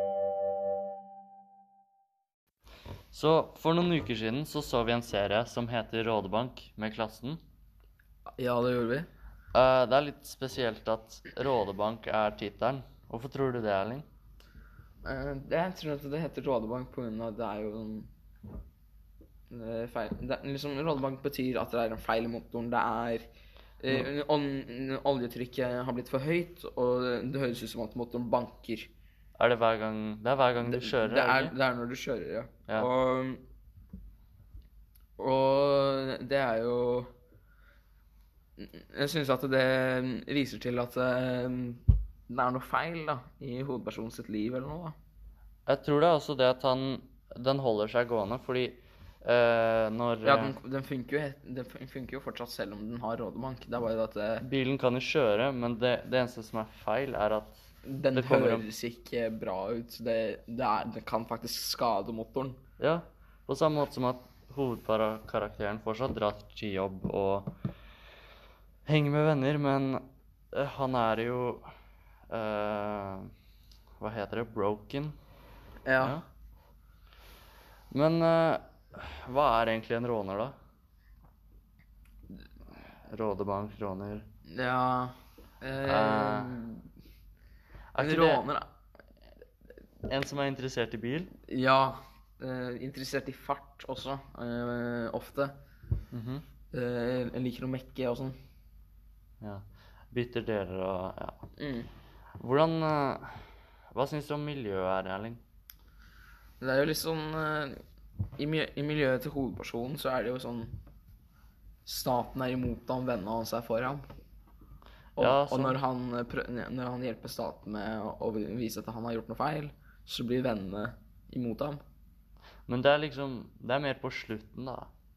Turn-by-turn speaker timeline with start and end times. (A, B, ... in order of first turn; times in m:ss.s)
0:03.1-0:07.4 A
0:08.4-0:09.1 B
0:09.5-0:14.0 A
0:15.0-0:18.1 B
0:19.5-0:23.3 B
0:23.8-0:28.9 B
0:29.4-0:31.5 A
0:30.6-0:33.4 B
0:35.2-0:37.1 B
0:38.6-0:44.9 B
0:45.7-0:50.5 A
0:50.2-0:54.4 B
0:54.4-0:58.7 A
0:57.8-1:02.6 B
1:02.8-1:07.5 A
1:08.8-1:11.7 A
1:12.3-1:13.3 A
1:14.0-1:15.2 A
1:15.8-1:16.2 B
1:16.0-1:16.2 A
1:17.9-1:20.5 A
1:23.1-1:24.3 A
1:24.5-1:26.8 B
1:25.8-1:26.6 A
1:27.9-1:28.4 A
1:28.0-1:28.6 B
1:30.1-1:31.3 A
1:31.5-1:35.5 B
1:36.1-1:36.4 A
1:36.7-1:38.3 B
1:39.4-1:41.4 A
1:41.6-1:41.9 B
1:42.4-1:45.4 A
1:46.6-1:47.8 B
1:48.4-1:50.7 B
1:51.8-1:54.0 B
1:55.2-1:55.8 A
1:55.2-2:01.8 B
2:02.7-2:04.9 A